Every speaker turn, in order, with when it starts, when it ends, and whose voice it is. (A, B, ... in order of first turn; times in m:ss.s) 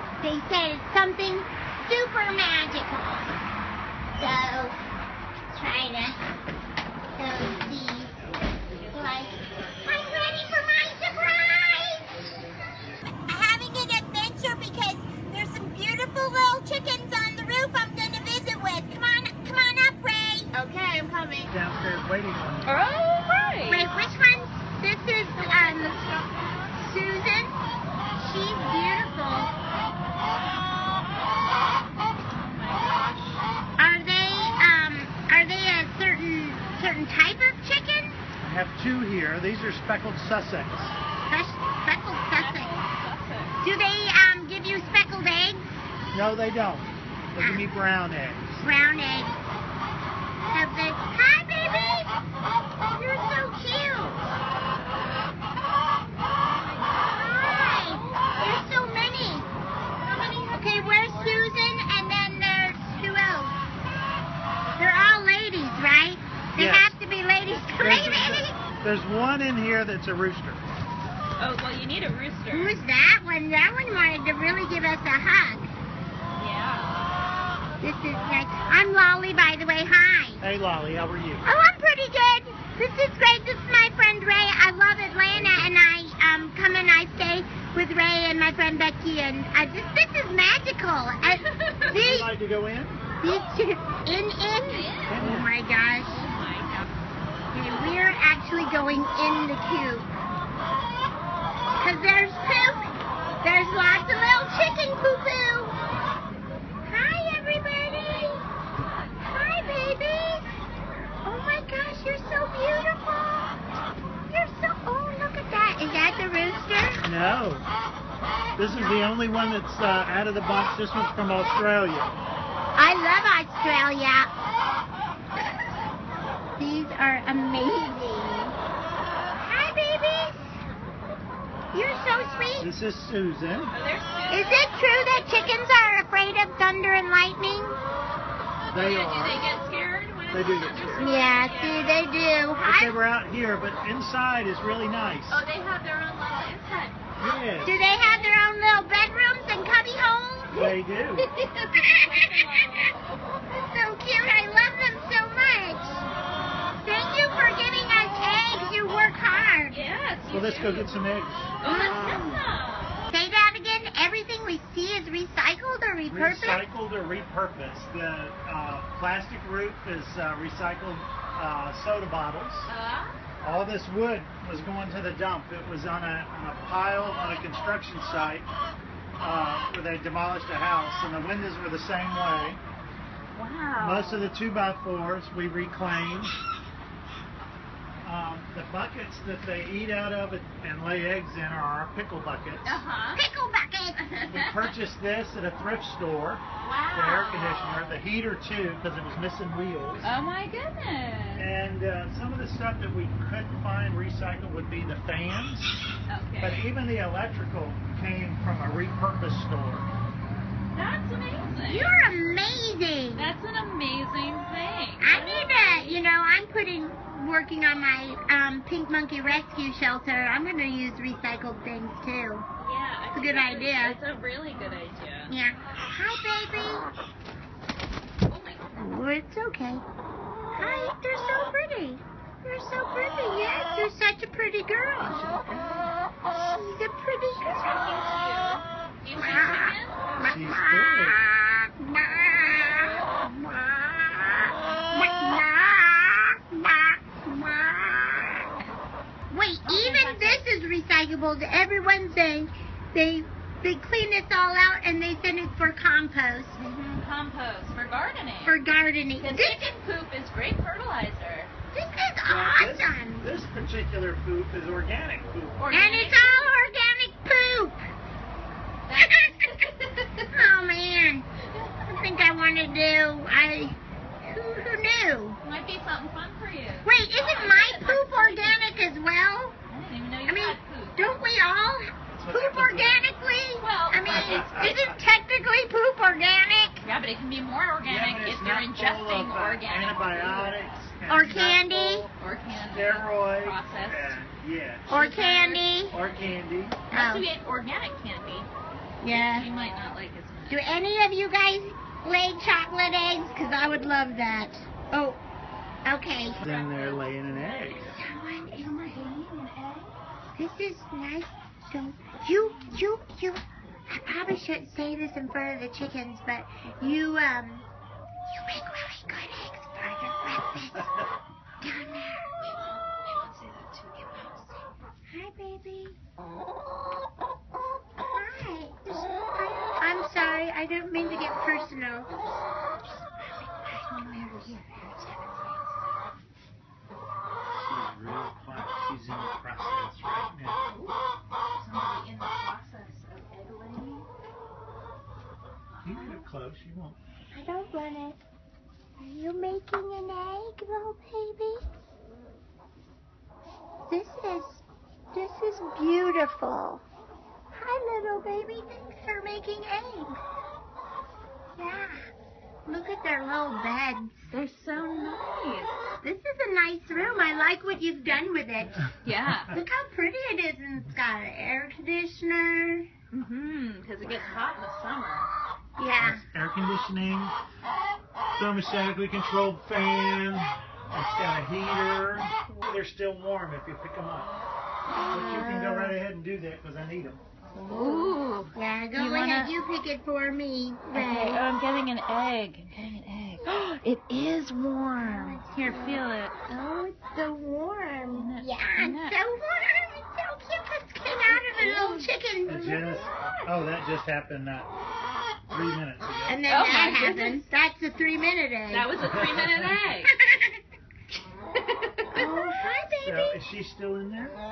0:00.2-0:03.4 A
0:04.2-0:04.8 A
0:05.5-0:06.2 A
0:07.1-0:08.2 A
0:08.9-0:12.2 A
0:13.2-0:21.4 A
0:21.5-0:22.8 B
0:22.6-0:23.9 C
0:23.7-0:26.0 A
0:25.4-0:26.9 C
0:26.8-0:27.6 A
0:28.2-0:29.5 A
0:32.3-0:33.4 C
0:33.8-0:38.2 A
0:38.4-0:41.0 B
0:41.3-0:42.7 A
0:42.3-0:43.6 C
0:43.6-0:45.8 A
0:46.1-0:48.6 B
0:47.4-0:47.6 A
0:48.6-0:49.4 A
0:50.5-0:52.1 A
0:52.9-0:54.2 A
0:57.0-0:59.5 A
0:57.7-0:58.2 C
1:00.0-1:01.5 C
1:00.5-1:03.6 A
1:04.8-1:08.6 A
1:06.6-1:07.0 B
1:07.6-1:10.7 B
1:11.4-1:12.8 C
1:12.5-1:15.7 A
1:16.4-1:17.0 C
1:17.8-1:20.4 A
1:20.4-1:21.4 B
1:21.4-1:32.3 A
1:31.3-1:32.0 C
1:31.9-1:33.0 B
1:33.2-1:36.2 A
1:34.6-1:35.2 C
1:35.0-1:35.5 B
1:36.0-1:36.9 C
1:37.5-1:40.1 A
1:41.8-1:42.9 A
1:43.4-1:45.8 A
1:46.8-1:48.4 A
1:49.1-1:49.9 C
1:49.2-1:50.5 A
1:51.2-1:53.6 A
1:54.3-1:57.0 A
1:57.0-1:57.7 B
1:58.6-2:02.2 B
1:58.7-1:59.0 A
2:02.7-2:04.3 A
2:06.6-2:08.6 A
2:09.4-2:10.5 A
2:11.7-2:12.7 A
2:12.6-2:13.7 B
2:13.7-2:14.6 C
2:14.3-2:17.8 A
2:18.7-2:19.4 B
2:18.7-2:22.0 C
2:20.3-2:21.1 B
2:21.0-2:22.9 A
2:22.6-2:25.4 B
2:25.3-2:27.0 C
2:27.2-2:27.8 B
2:27.6-2:30.6 A
2:27.9-2:28.4 C
2:30.5-2:31.3 B
2:31.2-2:33.0 C
2:31.7-2:32.3 A
2:33.7-2:36.0 A
2:36.8-2:39.8 A
2:39.7-2:41.0 C
2:40.3-2:41.5 B
2:41.6-2:43.0 C
2:41.6-2:42.4 A
2:43.1-2:46.7 A
2:46.1-2:52.7 B
2:52.7-2:53.2 C
2:53.4-2:58.5 B
2:59.2-3:02.6 B
3:03.3-3:04.3 C
3:03.8-3:06.4 B
3:08.0-3:12.8 B
3:12.6-3:13.2 C
3:13.1-3:14.0 A
3:14.0-3:14.7 C
3:14.3-3:20.1 B
3:16.6-3:17.8 C
3:20.0-3:21.5 C
3:21.4-3:25.8 B
3:26.1-3:26.7 C
3:26.4-3:29.9 B
3:30.7-3:31.9 C
3:31.6-3:33.3 A
3:33.2-3:36.0 C
3:35.0-3:42.4 A
3:42.6-3:45.3 C
3:43.1-3:44.0 A
3:45.3-3:46.9 A
3:48.3-3:48.7 C
3:48.7-3:49.8 A
3:50.5-3:55.3 A
3:55.0-3:55.9 B
3:56.3-3:57.6 A
3:57.4-4:00.2 C
3:59.2-4:08.5 A
4:00.2-4:01.2 B
4:02.8-4:03.0 C
4:09.3-4:16.6 A
4:09.6-4:10.4 C
4:16.6-4:18.6 C
4:18.4-4:19.7 A
4:19.2-4:21.5 C
4:21.7-4:23.3 A
4:22.3-4:25.6 B
4:25.6-4:26.4 C
4:25.7-4:27.8 A
4:28.9-4:30.3 C
4:29.0-4:29.4 A
4:30.3-4:31.3 A
4:31.8-4:35.4 A
4:35.4-4:38.5 C
4:36.8-4:39.6 A
4:39.7-4:41.0 C
4:40.3-4:46.8 A
4:42.1-4:43.0 B
4:43.6-4:44.8 C
4:44.0-4:45.0 B
4:46.8-4:50.6 C
4:47.8-4:52.1 B
4:51.1-4:52.1 A
4:52.1-4:54.2 C
4:52.7-4:55.0 B
4:54.9-4:55.9 A
4:54.9-4:55.6 C
4:55.9-4:56.8 B
4:56.9-4:57.2 A
4:56.9-4:58.5 C
4:59.0-4:59.5 A
4:59.1-5:00.6 C
5:00.5-5:05.2 A
5:05.8-5:06.4 A
5:06.4-5:09.9 C
5:06.4-5:07.9 B
5:07.8-5:08.8 A
5:10.4-5:17.6 A
5:16.7-5:17.0 C
5:18.3-5:20.9 A
5:21.6-5:22.3 A
5:22.4-5:24.6 C
5:25.1-5:26.0 A
5:28.0-5:32.3 A
5:33.2-5:34.8 A
5:33.8-5:36.0 C
5:37.5-5:40.6 B
5:40.6-5:41.0 C
5:41.5-5:44.0 C
5:45.8-5:47.0 B
5:47.3-5:48.2 A
5:49.0-5:51.6 A
5:53.9-5:56.8 A
5:57.5-6:00.2 A
6:01.6-6:02.1 A
6:02.6-6:04.3 A
6:04.3-6:05.7 C
6:06.0-6:08.9 A
6:09.0-6:09.5 C
6:09.3-6:09.6 B
6:09.5-6:12.9 A
6:13.1-6:15.3 C
6:15.8-6:16.2 A
6:16.0-6:17.3 B
6:18.4-6:24.3 B
6:25.0-6:26.0 A
6:25.1-6:27.2 B
6:27.6-6:29.5 C
6:27.6-6:31.5 A
6:30.9-6:36.3 C
6:35.0-6:43.0 A
6:38.1-6:39.2 C
6:41.3-6:42.1 C
6:42.5-6:44.7 B
6:43.2-6:43.5 C
6:45.5-6:46.4 B
6:46.3-6:49.0 A
6:46.5-6:47.4 C
6:48.7-6:50.1 C
6:49.0-6:49.8 B
6:50.1-6:50.6 A
6:51.6-6:52.6 C
6:52.1-6:53.4 A
6:52.9-6:54.4 B